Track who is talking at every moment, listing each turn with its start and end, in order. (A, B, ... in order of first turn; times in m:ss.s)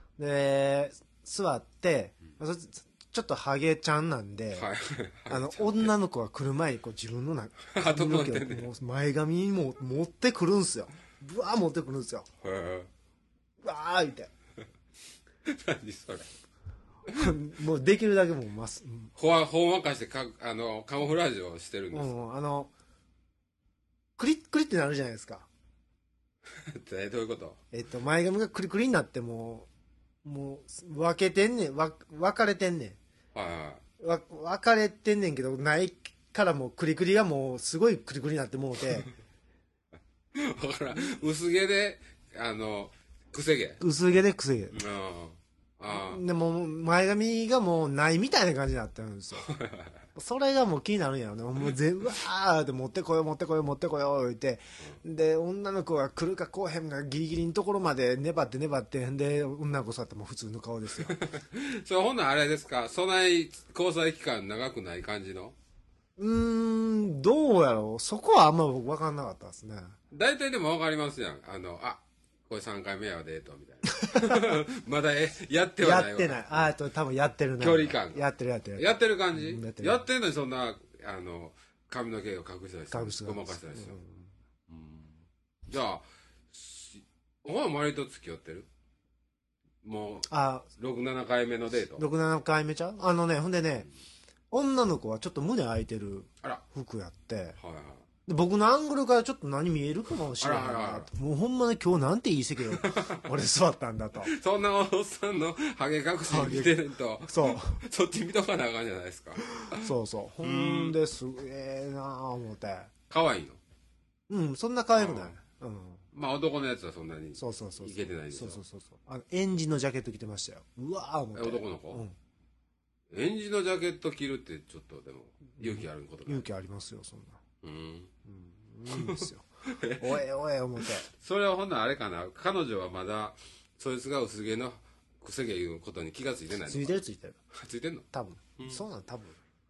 0:00.2-0:04.7 A
0:04.5-0:05.9 B
0:05.3-0:12.3 A
0:07.7-0:08.7 B
0:12.4-0:12.9 B
0:13.6-0:14.3 A
0:15.4-0:16.3 B
0:17.1-0:19.1 A
0:19.2-0:22.1 B
0:21.9-0:22.7 A
0:24.2-0:25.5 A
0:26.5-0:27.6 B
0:27.7-0:29.7 A
0:30.2-0:33.0 A
0:33.3-0:33.8 B
0:34.0-0:39.1 A
0:40.3-0:43.8 B
0:43.8-0:44.8 A
0:44.7-0:46.2 B
0:45.9-0:49.5 A
0:49.4-0:50.0 B
0:50.1-1:01.2 A
1:01.0-1:05.6 B
1:06.2-1:10.0 A
1:10.1-1:16.7 B
1:13.9-1:14.6 A
1:15.8-1:20.0 A
1:17.6-1:18.2 B
1:18.8-1:24.0 B
1:22.9-1:24.3 A
1:24.7-1:28.7 B
1:29.8-1:32.1 B
1:30.3-1:30.7 A
1:32.0-1:33.9 A
1:34.5-1:37.6 A
1:37.6-1:38.0 B
1:38.3-1:44.3 A
1:40.4-1:41.1 B
1:42.7-1:43.3 B
1:44.2-1:49.9 B
1:46.3-1:47.8 A
1:49.4-1:52.9 A
1:50.4-1:51.0 B
1:53.1-1:53.6 B
1:54.3-1:56.0 A
1:55.0-1:55.3 B
1:56.1-1:58.6 B
1:57.4-2:02.1 A
2:01.3-2:02.0 B
2:03.1-2:06.4 B
2:05.6-2:07.4 A
2:07.6-2:08.1 B
2:08.2-2:09.4 A
2:08.9-2:10.2 B
2:10.0-2:11.1 A
2:10.8-2:18.1 B
2:16.7-2:17.4 A
2:18.1-2:19.4 A